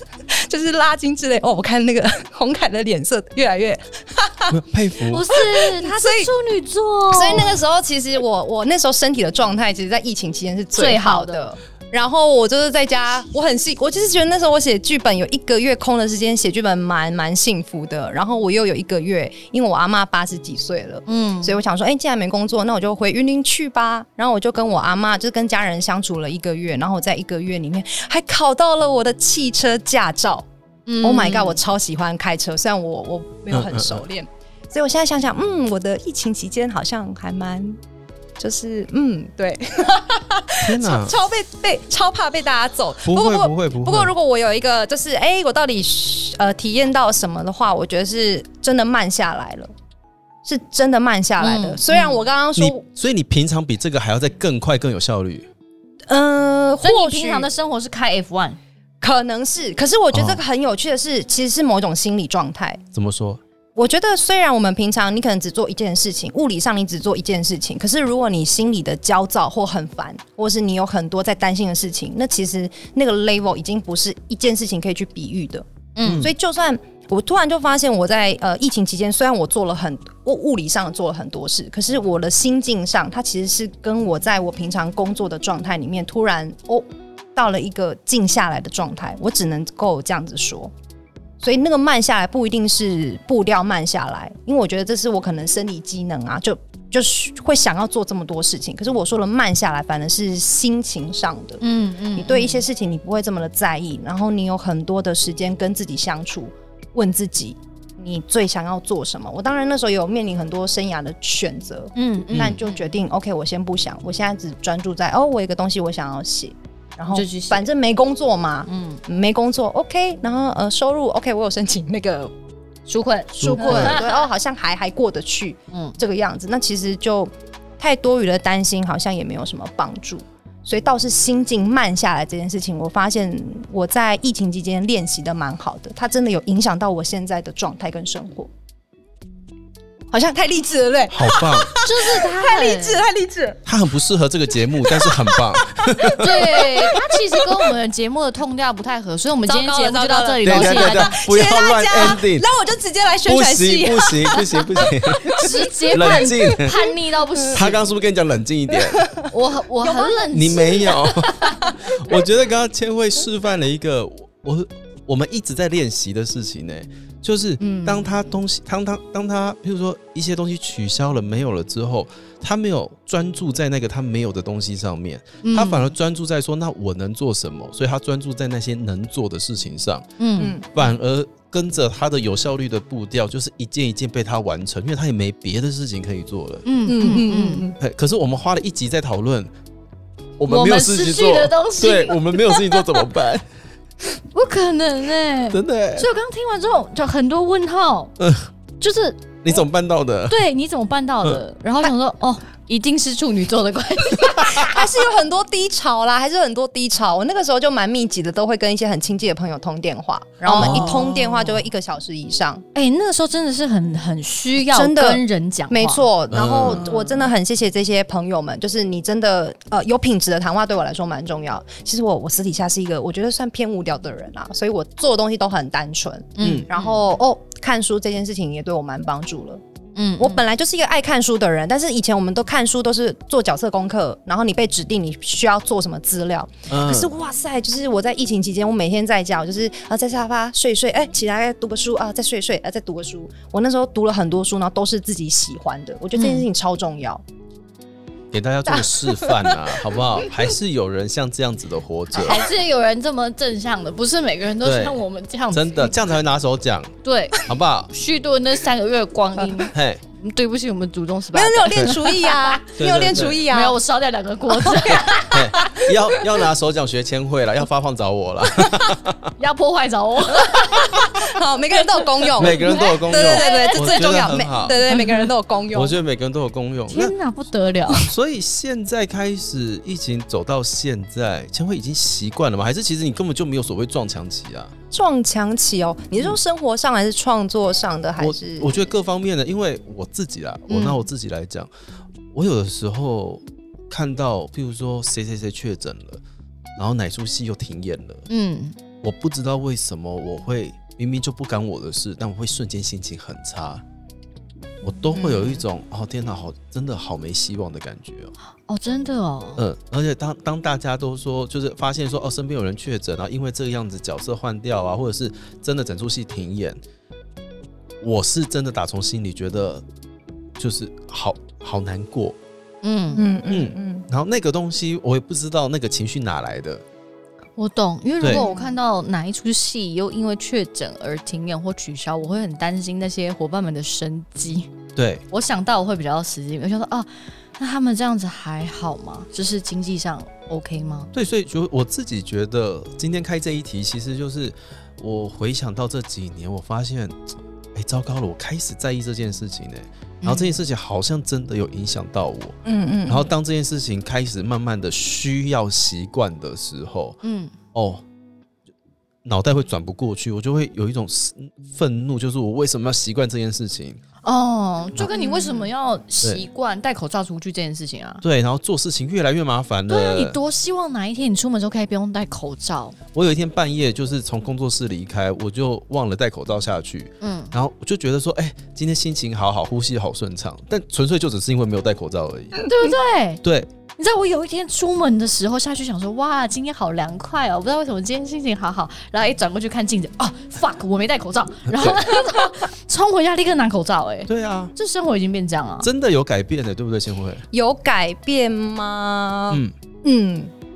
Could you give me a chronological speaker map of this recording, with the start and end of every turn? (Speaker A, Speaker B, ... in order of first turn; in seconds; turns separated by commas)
Speaker A: 0.3-4.5, Speaker B: 4.5-5.3, Speaker C: 5.1-7.5, Speaker A: 5.3-6.3, Speaker A: 7.1-30.5, Speaker C: 10.8-11.5, Speaker C: 21.1-21.6, Speaker C: 30.9-31.6, Speaker A: 31.0-37.8, Speaker B: 33.5-34.0, Speaker A: 38.4-49.7, Speaker B: 40.6-41.2, Speaker B: 43.0-44.1, Speaker A: 50.4-52.8, Speaker C: 51.4-52.2, Speaker B: 52.6-55.5, Speaker A: 56.1-57.5, Speaker C: 56.8-58.6, Speaker A: 59.0-62.8, Speaker B: 60.1-60.4, Speaker B: 62.9-63.4, Speaker A: 63.8-90.7, Speaker C: 76.0-76.3, Speaker B: 76.0-76.3, Speaker A: 91.4-101.6, Speaker C: 101.6-102.7, Speaker A: 102.2-122.3, Speaker C: 112.0-112.9, Speaker B: 112.3-112.6, Speaker C: 117.1-117.7, Speaker C: 118.7-119.0, Speaker C: 122.9-124.2, Speaker A: 123.4-138.5, Speaker B: 123.4-124.0, Speaker C: 125.7-126.0, Speaker A: 140.1-143.6, Speaker B: 141.1-141.7, Speaker C: 141.8-143.1, Speaker B: 143.7-146.4, Speaker A: 144.8-147.5, Speaker C: 146.0-151.2, Speaker A: 149.5-156.9, Speaker B: 150.4-152.5, Speaker B: 153.3-156.8, Speaker C: 155.4-157.8, Speaker B: 157.5-159.1, Speaker A: 158.8-159.3, Speaker C: 159.3-161.7, Speaker A: 159.8-161.8, Speaker B: 160.3-180.1, Speaker C: 167.6-168.1, Speaker C: 175.4-175.9, Speaker C: 180.2-180.6, Speaker A: 180.4-180.7, Speaker B: 180.7-186.7, Speaker C: 186.7-187.7, Speaker A: 186.9-187.8, Speaker B: 187.8-189.5, Speaker B: 190.4-193.5, Speaker C: 190.5-192.8, Speaker C: 194.3-198.1, Speaker B: 195.5-196.1, Speaker B: 198.2-198.5, Speaker C: 198.8-199.3, Speaker B: 199.4-200.4, Speaker C: 200.3-204.8, Speaker A: 204.4-212.7, Speaker C: 210.5-211.1, Speaker B: 210.5-211.5, Speaker C: 212.7-216.1, Speaker A: 214.7-229.6, Speaker B: 216.3-216.8, Speaker C: 216.7-217.3, Speaker C: 226.4-227.0, Speaker B: 226.4-226.7, Speaker C: 230.0-230.4, Speaker A: 230.2-247.2, Speaker B: 236.7-237.1, Speaker C: 246.2-246.5, Speaker B: 248.3-252.4, Speaker A: 248.7-249.6, Speaker C: 252.1-256.0, Speaker B: 254.6-256.9, Speaker C: 257.0-262.6, Speaker B: 257.4-257.9, Speaker B: 259.7-260.0, Speaker A: 261.3-263.8, Speaker B: 262.8-263.4, Speaker C: 263.2-265.6, Speaker A: 264.6-266.2, Speaker B: 265.1-269.3, Speaker C: 269.4-271.1, Speaker A: 270.9-276.0, Speaker C: 272.2-274.2, Speaker B: 272.4-274.8, Speaker C: 274.8-275.3, Speaker B: 275.7-277.1, Speaker C: 276.9-278.1, Speaker B: 277.9-284.7, Speaker A: 284.9-288.8, Speaker B: 288.2-291.7, Speaker C: 290.7-291.0, Speaker B: 292.3-296.2, Speaker B: 296.8-298.3, Speaker C: 298.3-298.8, Speaker B: 299.0-303.8, Speaker B: 304.8-308.3, Speaker A: 305.2-305.6, Speaker C: 308.7-309.6, Speaker B: 309.6-316.8, Speaker B: 318.0-319.8, Speaker B: 320.6-322.4, Speaker C: 322.8-323.2, Speaker A: 323.1-324.1, Speaker B: 323.5-326.8, Speaker C: 327.6-334.7, Speaker A: 328.3-328.7, Speaker B: 335.0-335.2, Speaker C: 335.3-341.1, Speaker B: 341.1-347.2, Speaker B: 347.8-357.2, Speaker C: 350.2-350.6, Speaker A: 352.6-353.3, Speaker C: 357.2-357.5, Speaker B: 357.7-358.0, Speaker B: 359.2-364.0, Speaker C: 364.2-368.2, Speaker A: 365.2-365.6, Speaker B: 368.2-370.4, Speaker C: 369.9-373.0, Speaker B: 373.1-382.7, Speaker C: 377.2-377.5, Speaker C: 382.6-383.4, Speaker B: 383.4-383.7, Speaker C: 384.0-395.9, Speaker B: 394.3-394.7, Speaker B: 395.8-397.5, Speaker A: 397.5-400.5